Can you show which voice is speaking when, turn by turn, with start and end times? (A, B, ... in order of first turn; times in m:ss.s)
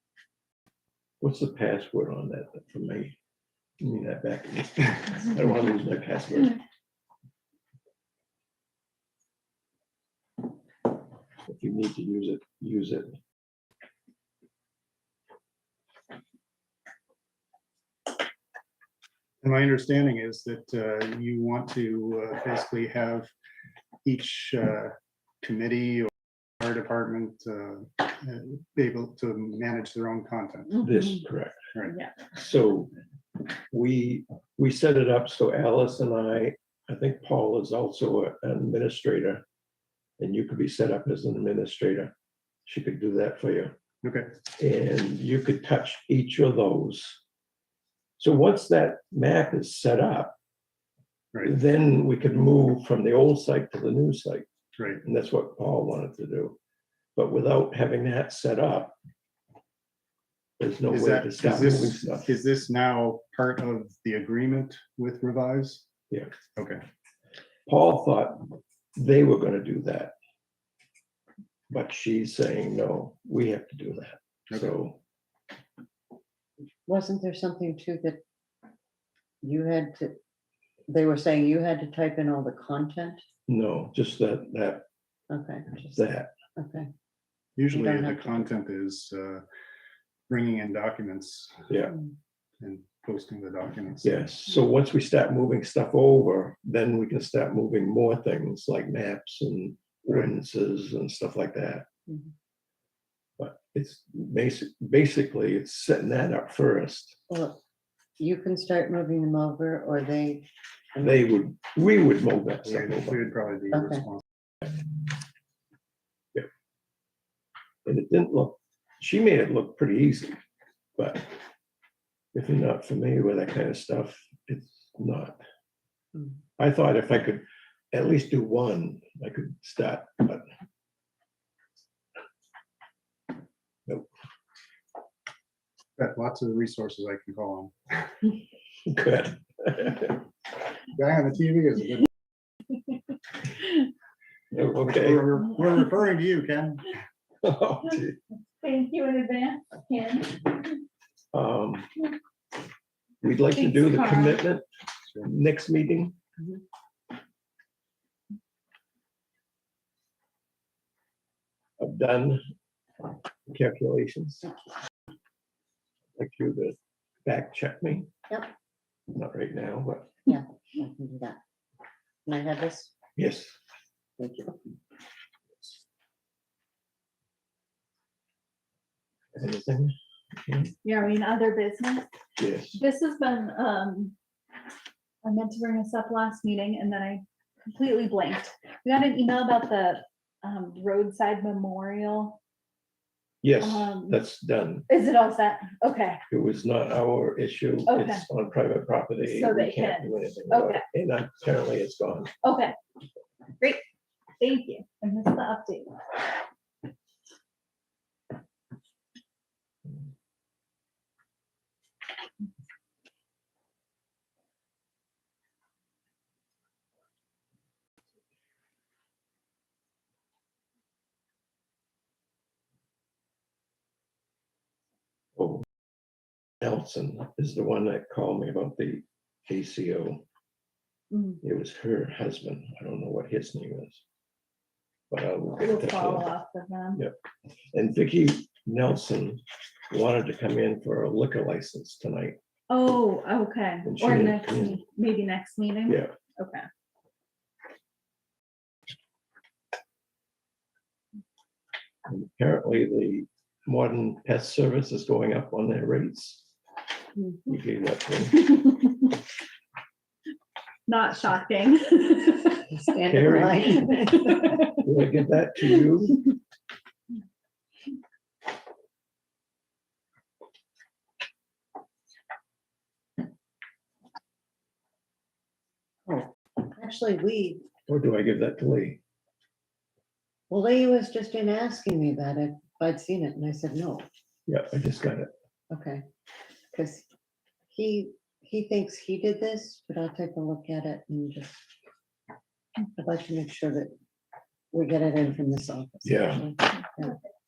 0:01.2-0:03.2 A
0:03.8-0:06.6 A
0:11.4-0:13.1 A
0:19.4-0:23.3 B
0:24.0-0:30.8 B
0:30.8-0:31.7 A
0:31.8-0:32.2 C
0:32.3-0:32.9 A
0:33.7-0:39.4 A
0:40.2-0:42.1 A
0:42.6-0:43.8 A
0:44.0-0:44.3 B
0:44.5-0:47.2 A
0:48.2-0:50.3 A
0:51.4-0:54.4 A
0:55.0-0:56.6 A
0:57.2-0:58.9 A
1:00.6-1:02.3 A
1:00.9-1:05.8 B
1:06.6-1:06.8 B
1:07.7-1:10.1 A
1:11.7-1:15.0 A
1:16.9-1:18.2 D
1:19.4-1:20.2 D
1:20.9-1:23.2 D
1:23.5-1:24.8 A
1:25.3-1:26.9 D
1:25.9-1:26.3 A
1:27.6-1:29.4 B
1:27.7-1:28.5 D
1:30.3-1:31.7 B
1:31.7-1:31.9 A
1:32.6-1:34.1 B
1:34.0-1:41.8 A
1:40.1-1:40.3 B
1:43.4-1:47.2 A
1:47.3-1:47.6 D
1:48.2-1:51.2 D
1:51.0-1:53.3 A
1:52.6-1:54.2 B
1:53.7-1:54.0 D
1:57.8-2:00.3 A
2:01.0-2:01.3 A
2:02.3-2:05.4 A
2:06.6-2:10.4 A
2:16.0-2:18.1 B
2:18.8-2:20.2 A
2:20.9-2:22.1 B
2:24.5-2:25.4 A
2:24.5-2:26.9 B
2:27.4-2:28.2 A
2:28.6-2:30.8 C
2:31.3-2:31.9 A
2:33.2-2:34.6 A
2:33.5-2:34.4 C
2:35.2-2:36.2 A
2:41.8-2:42.4 A
2:43.5-2:44.4 A
2:46.2-2:48.1 A
2:49.1-2:50.2 A
2:50.3-2:51.4 D
2:52.2-2:52.9 D
2:53.2-2:53.6 A
2:54.2-2:54.6 D
2:59.3-2:59.9 A
3:00.4-3:00.7 A
3:00.8-3:02.1 C
3:02.4-3:02.8 A
3:02.7-3:04.1 C
3:05.2-3:12.4 C
3:13.4-3:14.9 A
3:13.6-3:14.2 C
3:14.9-3:16.2 C
3:16.3-3:22.3 A
3:17.9-3:18.2 C
3:19.2-3:20.8 C
3:22.4-3:22.8 C
3:24.4-3:26.0 C
3:45.4-3:45.6 A
3:46.6-3:50.2 A
3:51.4-3:54.0 A
3:55.1-3:56.3 A
3:55.6-3:57.0 C
3:57.7-4:02.4 A
4:02.7-4:06.7 C
4:03.8-4:04.8 A
4:05.9-4:06.1 A
4:12.1-4:16.4 A
4:17.5-4:18.6 A
4:20.9-4:22.7 C
4:22.7-4:24.5 D
4:23.0-4:23.9 A
4:24.2-4:24.7 C
4:24.7-4:26.2 A
4:36.1-4:37.6 D
4:37.9-4:39.0 A
4:40.5-4:44.0 D
4:44.5-4:45.3 A
4:45.7-4:46.0 D
4:46.7-4:47.0 D
4:47.7-4:51.6 D
4:53.0-4:53.9 D
4:54.7-4:57.2 D
4:56.0-4:56.4 A